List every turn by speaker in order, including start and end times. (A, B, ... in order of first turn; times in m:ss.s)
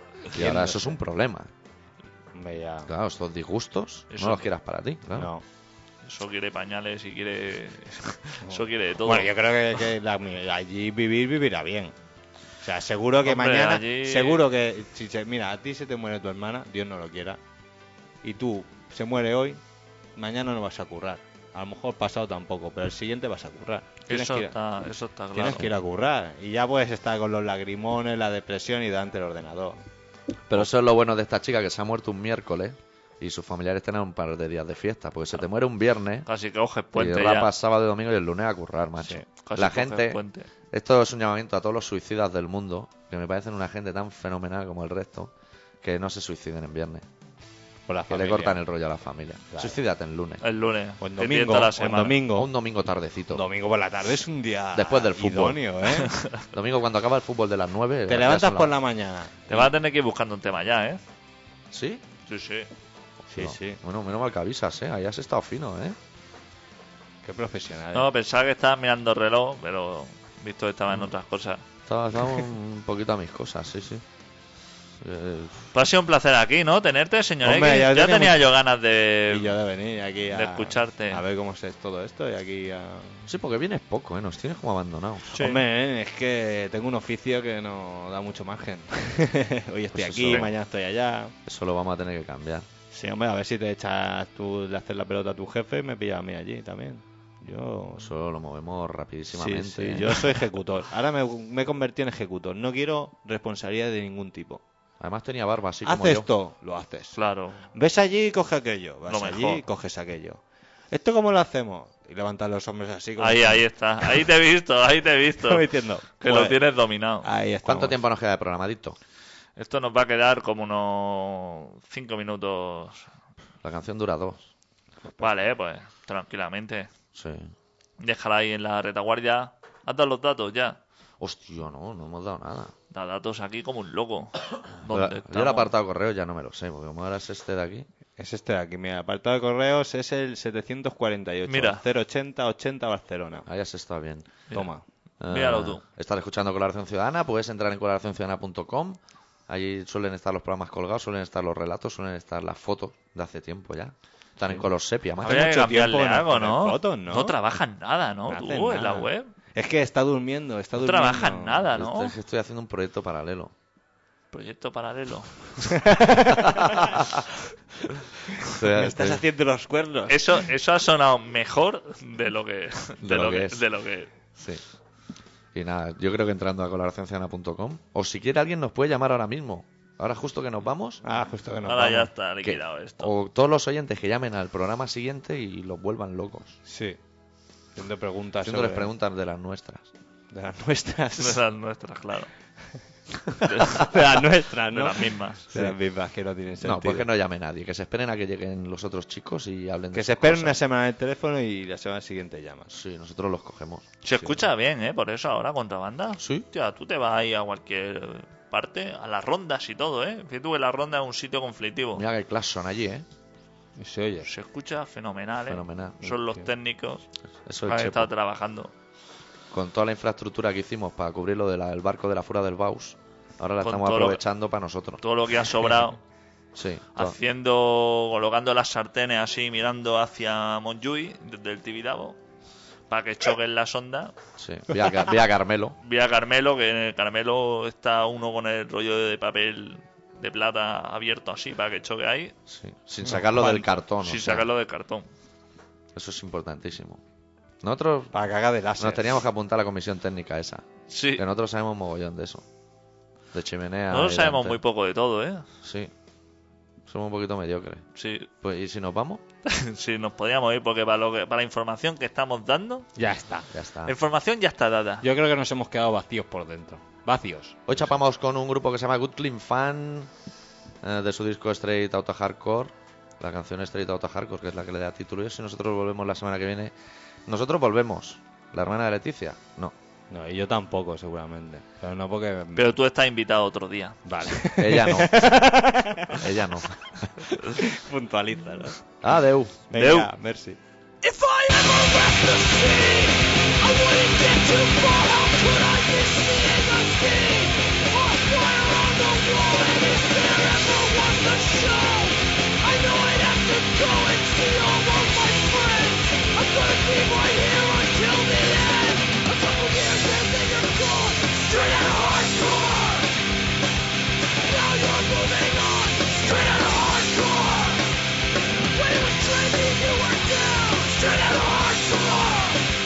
0:00.3-0:01.5 A
0:00.3-0:01.0 B
0:02.3-0:02.9 B
0:02.9-0:05.3 A
0:04.1-0:04.4 C
0:05.2-0:05.4 B
0:06.0-0:09.3 C
0:08.4-0:11.9 B
0:12.6-0:17.4 B
0:13.2-0:14.4 C
0:18.2-0:19.6 B
0:20.2-0:24.5 B
0:24.1-0:25.7 C
0:25.3-0:29.8 B
0:30.5-0:36.3 A
0:36.3-0:37.5 C
0:36.9-0:40.2 A
0:39.3-0:40.5 C
0:40.7-0:47.0 A
0:47.9-0:48.6 B
0:48.1-0:50.4 A
0:49.5-0:49.8 B
0:50.4-0:52.3 C
0:51.0-0:52.5 B
0:52.3-0:53.4 A
0:53.3-0:56.1 B
0:54.7-0:55.6 A
0:55.9-0:56.4 C
0:56.5-0:58.8 A
0:58.1-0:59.7 B
0:59.5-1:01.0 C
1:01.7-1:02.0 A
1:02.3-1:02.7 C
1:03.3-1:03.8 B
1:03.3-1:06.0 A
1:07.2-1:08.1 B
1:07.9-1:11.6 C
1:11.8-1:14.0 A
1:15.0-1:15.7 A
1:15.7-1:19.6 C
1:17.4-1:18.5 B
1:19.3-1:23.3 B
1:20.3-1:21.2 C
1:23.3-1:25.3 A
1:25.3-1:25.6 C
1:25.3-1:31.3 B
1:29.9-1:30.5 A
1:31.4-1:32.7 A
1:32.9-1:38.1 B
1:38.0-1:40.2 A
1:39.3-1:44.6 B
1:45.0-1:46.3 A
1:45.8-1:47.2 B
1:47.2-1:47.6 C
1:47.7-1:50.4 B
1:49.1-1:49.6 C
1:50.9-1:54.1 B
1:53.2-1:55.6 C
1:55.4-1:56.6 B
1:56.2-1:57.2 C
1:57.2-1:58.0 B
1:57.6-1:59.0 A
1:59.6-2:03.1 C
2:03.6-2:04.4 A
2:05.0-2:05.4 B
2:05.2-2:06.9 C
2:07.1-2:07.5 A
2:08.0-2:10.8 C
2:11.2-2:12.7 A
2:12.9-2:15.7 C
2:14.9-2:17.8 A
2:18.2-2:23.5 B
2:21.5-2:21.8 C
2:23.5-2:24.4 A
2:24.5-2:24.8 B
2:25.2-2:35.4 A
2:25.3-2:25.8 C
2:35.2-2:37.4 B
2:35.2-2:39.3 C
2:38.3-2:41.7 B
2:40.8-2:42.1 C
2:41.7-2:43.5 A
2:44.3-2:46.0 C
2:45.7-2:46.8 B
2:46.5-2:47.2 A
2:48.4-2:50.4 B
2:48.5-2:49.2 A
2:50.1-2:54.1 C
2:53.0-2:53.6 A
2:55.5-3:01.0 A
3:01.0-3:02.1 B
3:01.6-3:03.1 C
3:02.4-3:06.6 A
3:06.6-3:07.0 B
3:07.8-3:08.9 B
3:08.4-3:09.9 A
3:10.3-3:11.4 B
3:11.2-3:12.3 C
3:13.3-3:17.1 B
3:13.4-3:15.4 C
3:16.6-3:20.6 A
3:19.9-3:22.7 B
3:22.7-3:24.0 A
3:24.0-3:32.0 C
3:26.2-3:26.4 A
3:31.9-3:33.0 A
3:33.8-3:34.3 B
3:34.3-3:37.0 C
3:35.5-3:36.0 A
3:36.0-3:36.5 B
3:37.4-3:38.1 A
3:37.6-3:38.7 C
3:39.5-3:45.0 A
3:43.6-3:44.2 C
3:45.0-3:46.0 C
3:46.5-3:47.2 A
3:47.0-3:52.2 C
3:52.9-3:54.1 C
3:54.4-3:55.8 A
3:55.8-4:02.3 C
4:02.5-4:04.5 A
4:03.0-4:03.5 B
4:04.0-4:05.1 C
4:05.9-4:07.0 A
4:07.6-4:08.1 A
4:08.1-4:09.2 B
4:08.8-4:12.4 A
4:10.9-4:11.2 C
4:13.3-4:14.6 A
4:13.9-4:15.4 C
4:15.6-4:15.9 A
4:16.9-4:17.8 A
4:18.0-4:18.3 C
4:18.4-4:19.2 A
4:19.4-4:22.9 C
4:23.0-4:23.5 B
4:23.5-4:23.9 A
4:23.8-4:25.0 C
4:25.0-4:27.9 B
4:27.7-4:30.1 A
4:30.8-4:36.7 A
4:37.2-4:39.7 A
4:40.1-4:42.7 B
4:42.6-4:44.0 C
4:44.0-4:46.2 B
4:44.6-4:45.4 A
4:46.1-4:47.2 A
4:47.3-4:48.8 B
4:49.0-4:49.6 A
4:49.7-4:50.6 B
4:49.7-4:50.1 C
4:51.0-5:13.2 D
5:14.4-5:17.9 D
5:18.6-5:22.7 D